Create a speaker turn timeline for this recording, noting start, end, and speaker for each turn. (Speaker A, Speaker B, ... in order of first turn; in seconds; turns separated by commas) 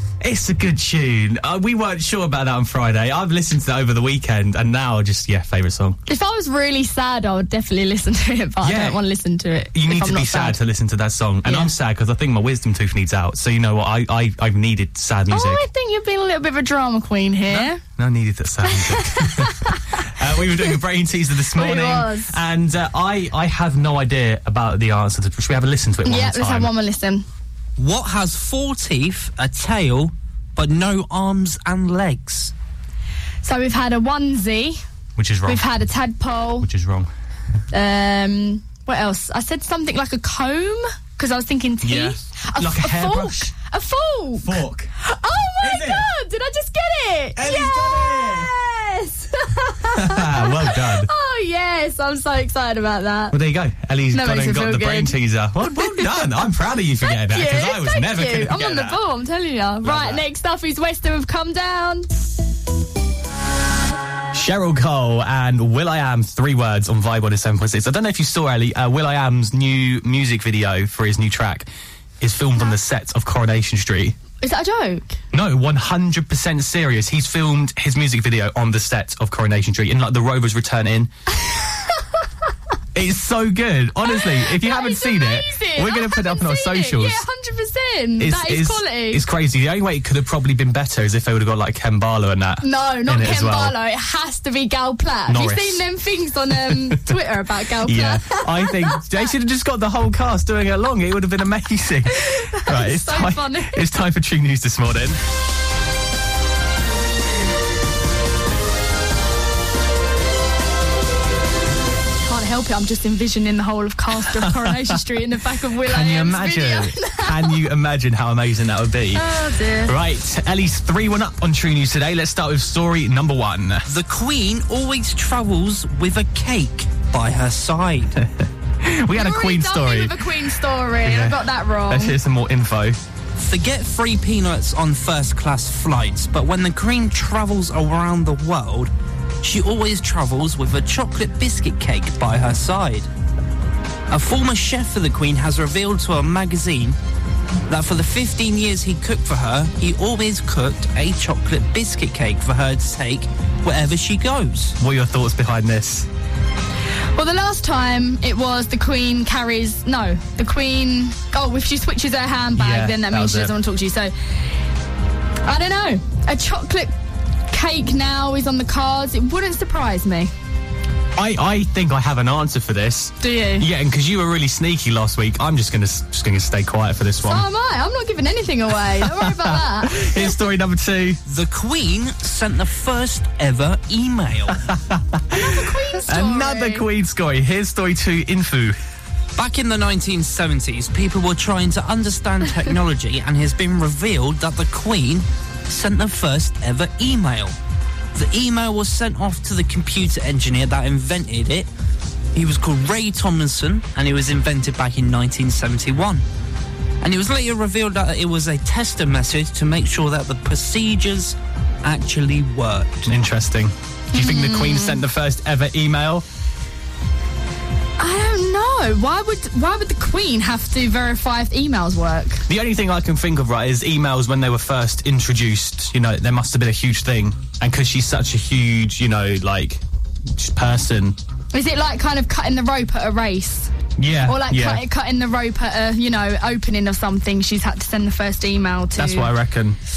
Speaker A: 0.2-6.0, Speaker B: 6.1-10.6, Speaker A: 8.6-9.0, Speaker A: 9.7-15.6, Speaker B: 11.4-11.7, Speaker B: 15.3-17.8, Speaker A: 17.5-26.7, Speaker B: 18.7-20.0, Speaker B: 21.5-22.4, Speaker B: 26.0-27.2, Speaker C: 27.8-32.5, Speaker B: 33.4-34.8, Speaker A: 35.1-35.6, Speaker B: 35.5-36.7, Speaker A: 36.6-37.1, Speaker B: 37.7-53.4, Speaker A: 41.8-43.5, Speaker A: 44.4-44.9, Speaker A: 45.6-46.1, Speaker A: 47.4-48.5, Speaker A: 49.9-51.1, Speaker A: 53.3-59.0, Speaker B: 54.1-56.2, Speaker B: 57.0-62.1, Speaker A: 59.8-60.2, Speaker A: 64.3-71.7, Speaker A: 72.2-74.2, Speaker B: 74.4-75.2, Speaker A: 75.3-81.1, Speaker A: 82.9-87.2, Speaker B: 84.0-89.2, Speaker A: 88.2-93.7, Speaker B: 92.6-99.0, Speaker A: 95.3-95.8, Speaker A: 96.5-97.0, Speaker A: 97.8-105.2, Speaker B: 102.1-103.8, Speaker B: 112.2-117.6, Speaker A: 114.2-115.0, Speaker A: 115.8-119.2, Speaker B: 119.1-119.9, Speaker A: 119.8-123.9, Speaker C: 123.9-128.2, Speaker A: 128.8-130.2, Speaker B: 129.1-132.2, Speaker A: 131.0-133.0, Speaker C: 133.4-138.9, Speaker C: 139.4-143.1, Speaker C: 144.1-147.0, Speaker C: 147.7-154.8, Speaker A: 154.8-156.1, Speaker B: 157.1-164.1, Speaker A: 162.6-163.5, Speaker B: 165.4-166.9, Speaker B: 167.5-170.3, Speaker A: 171.2-177.4, Speaker B: 173.2-173.7, Speaker B: 177.2-180.4, Speaker A: 179.0-181.2, Speaker C: 181.3-184.6, Speaker A: 184.5-188.8, Speaker B: 185.3-186.8, Speaker C: 189.3-197.5, Speaker C: 198.1-201.7, Speaker C: 202.3-206.2, Speaker C: 207.0-213.1, Speaker A: 213.1-216.2, Speaker B: 214.1-215.0, Speaker B: 218.0-222.4, Speaker A: 222.5-229.8, Speaker A: 230.3-231.2, Speaker B: 231.5-233.7, Speaker A: 234.0-234.8, Speaker B: 234.2-239.3, Speaker A: 239.0-239.8